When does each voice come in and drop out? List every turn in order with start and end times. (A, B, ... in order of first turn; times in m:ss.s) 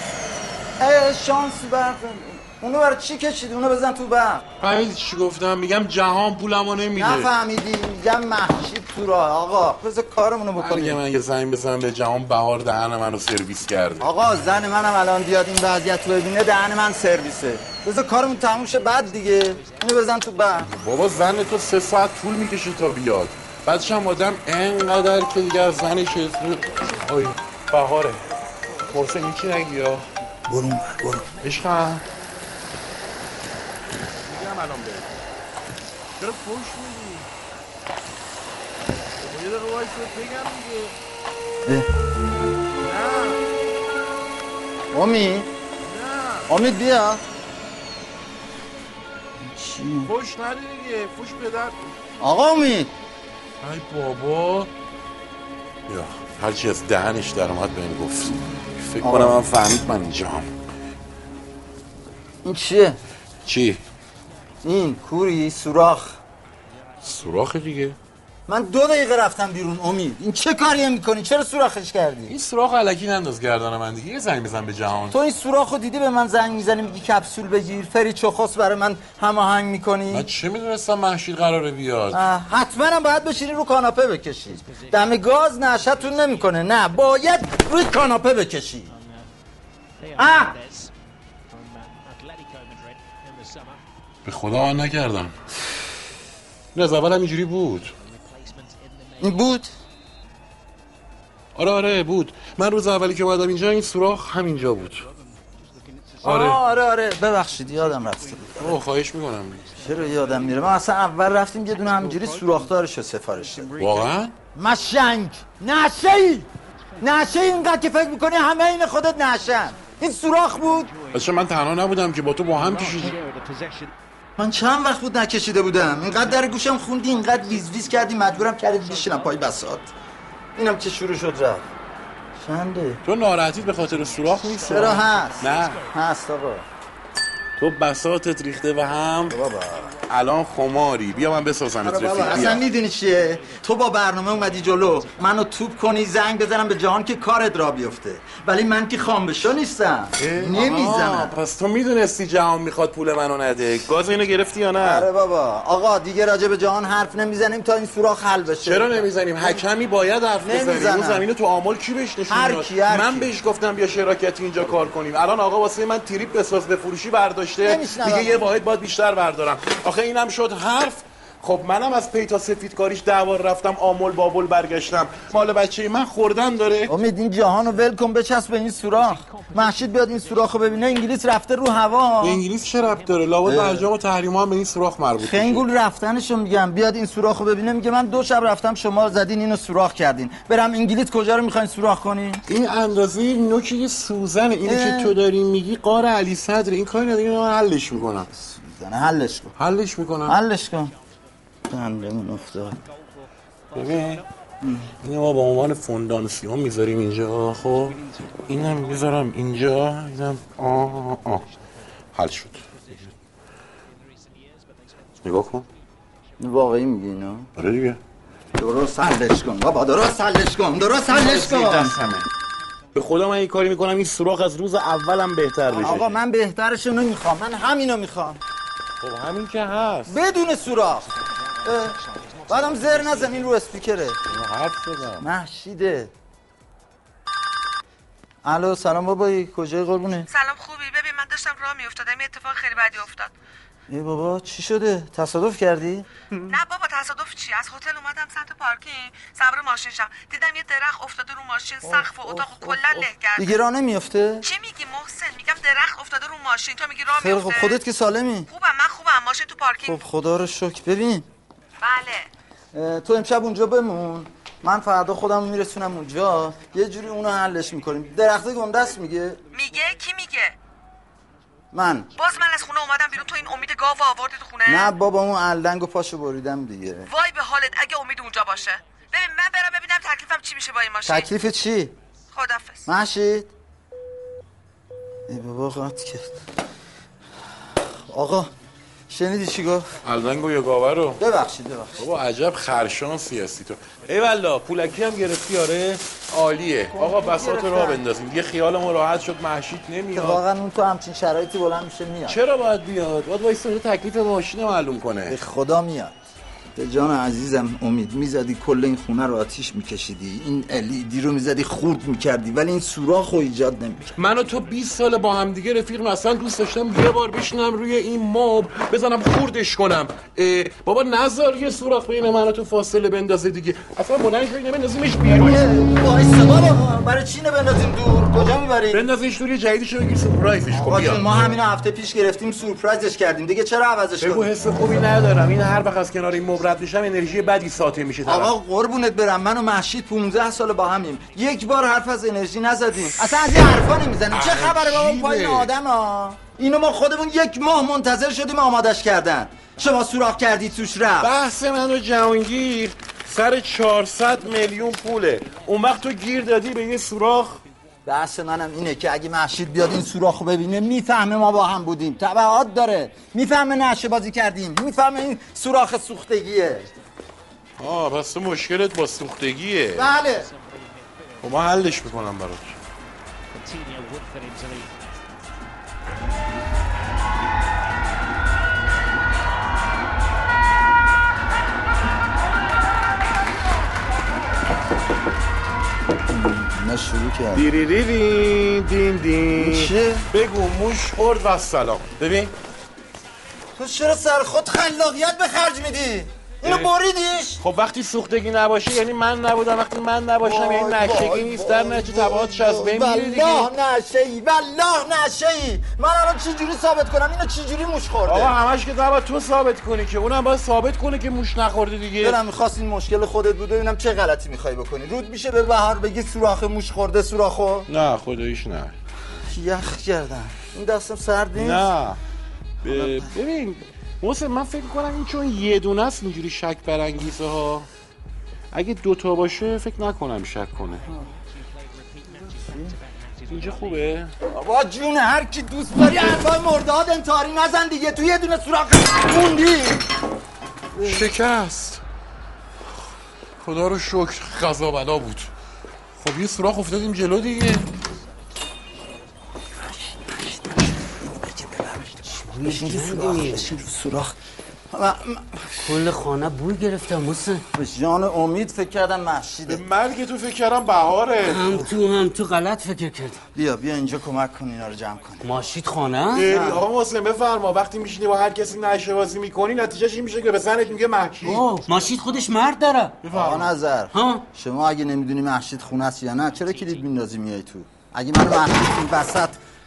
0:00.8-0:04.4 A
0:04.6-0:07.3 B
0:07.0-0:11.0 A
0:10.6-0:14.1 B
0:14.0-0:20.7 A
0:20.7-0:28.2 B
0:28.9-0:30.0 B
0:30.5-0:31.2 A
0:31.4-0:32.0 B
0:34.2-0:35.2 B
0:36.2-0:37.3 B
0:39.2-0:40.9 B
0:42.8-0:43.4 B
0:44.9-0:45.5 A
0:45.9-0:46.5 B
0:46.5-0:47.2 A
0:49.4-0:50.1 A
0:50.0-0:51.8 B
0:52.2-0:52.9 A
0:53.6-0:54.7 B
0:55.9-1:00.5 B
0:59.0-0:59.4 A
1:02.4-1:03.0 A
1:03.4-1:03.8 B
1:04.6-1:06.2 A
1:07.0-1:08.0 B
1:08.5-1:12.4 A
1:12.3-1:15.2 B
1:15.1-1:20.2 A
1:20.1-1:22.2 B
1:22.1-1:28.9 A
1:30.2-1:30.5 A
1:34.2-1:35.3 B
1:36.7-1:37.9 B
1:39.2-1:39.7 A
1:41.6-1:45.0 B
1:46.2-1:48.8 A
1:46.2-1:46.6 B
1:48.6-1:49.7 B
1:49.7-1:53.8 A
1:53.8-1:54.3 B
1:54.5-1:56.5 A
1:57.0-2:00.9 A
2:01.1-2:03.2 B
2:04.4-2:09.9 A
2:10.6-2:11.7 A
2:12.4-2:13.0 A
2:13.0-2:15.8 B
2:14.5-2:16.6 A
2:17.6-2:19.4 B
2:19.3-2:19.9 A
2:20.0-2:22.6 B
2:21.8-2:31.3 A
2:30.2-2:35.1 B
2:34.8-2:39.6 A
2:38.6-2:56.9 B
2:40.4-2:41.2 A
2:42.3-2:43.3 A
2:47.6-2:48.5 A
2:56.9-3:02.4 A
3:02.2-3:05.6 B
3:03.4-3:03.8 A
3:05.2-3:12.4 A
3:12.5-3:18.3 B
3:14.6-3:15.1 A
3:18.3-3:19.5 A
3:19.6-3:20.4 B
3:20.3-3:20.9 A
3:21.7-3:22.8 A
3:23.7-3:24.2 B
3:24.6-3:24.9 A
3:25.0-3:31.4 B
3:32.1-3:33.1 B
3:35.2-3:35.6 B
3:36.4-3:37.5 A
3:37.6-3:38.0 B
3:38.6-3:41.9 A
3:41.1-3:42.3 B
3:42.9-3:46.1 B
3:45.7-3:48.4 A
3:49.0-3:50.2 B
3:50.1-3:51.1 A
3:51.6-3:52.0 A
3:52.5-3:54.2 A
3:54.3-3:55.2 B
3:55.2-3:56.1 A
3:58.4-4:00.3 A
4:00.3-4:03.3 C
4:03.9-4:06.1 A
4:06.5-4:13.6 C
4:11.9-4:13.1 B
4:13.4-4:14.5 A
4:14.4-4:17.8 C
4:17.1-4:18.5 A
4:18.5-4:20.0 C
4:19.8-4:21.3 A
4:21.8-4:22.2 C
4:22.7-4:29.4 A
4:29.5-4:30.6 C
4:31.7-4:32.1 A
4:32.2-4:34.9 C
4:34.6-4:37.1 A
4:37.1-4:41.3 C
4:41.0-4:41.9 A
4:42.3-4:42.9 C
4:42.8-4:43.5 A
4:45.3-4:46.4 A
4:47.8-4:48.5 A
4:49.1-4:49.9 A
4:50.0-4:51.2 B
4:51.2-4:52.1 A
4:52.0-5:00.4 B
4:56.9-4:58.0 A
5:00.1-5:02.4 A
5:02.3-5:05.4 B
5:05.3-5:06.1 A
5:06.8-5:14.1 A
5:14.2-5:25.6 B
5:25.2-5:29.0 A
5:28.9-5:31.5 B
5:30.7-5:34.5 A
5:34.2-5:38.5 B
5:38.2-5:51.3 A
5:44.3-5:45.7 B
5:51.2-5:57.6 B
5:58.0-6:06.9 A
6:07.8-6:10.1 B
6:09.9-6:10.5 A
6:11.4-6:12.8 B
6:26.3-6:27.7 A
6:27.5-6:32.5 B
6:29.6-6:30.3 A
6:33.8-6:37.6 A
6:36.6-6:36.9 B
6:37.6-6:43.7 B
6:40.4-6:48.5 A
6:48.2-6:52.4 B
6:52.2-6:57.9 A
6:57.9-6:58.9 B
6:59.5-7:01.9 A
7:01.6-7:02.2 B
7:02.8-7:07.9 B
7:02.8-7:03.3 A
7:08.7-7:11.0 B
7:12.5-7:12.9 A
7:13.5-7:14.3 B
7:14.5-7:20.0 A
7:21.0-7:21.3 A
7:21.0-7:22.0 B
7:23.6-7:25.5 B
7:26.2-7:27.9 B
7:29.8-7:34.4 A
7:32.2-7:33.7 D
7:34.9-7:35.9 A
7:35.8-7:37.6 D
7:37.7-7:39.8 A
7:39.7-7:41.8 B
7:41.4-7:43.4 D
7:43.5-7:45.4 A
7:45.4-7:46.5 D
7:46.3-7:51.6 B
7:46.4-7:46.8 A
7:51.4-7:53.2 D
7:53.2-7:53.7 B
7:53.3-7:59.6 A
7:54.1-7:54.4 D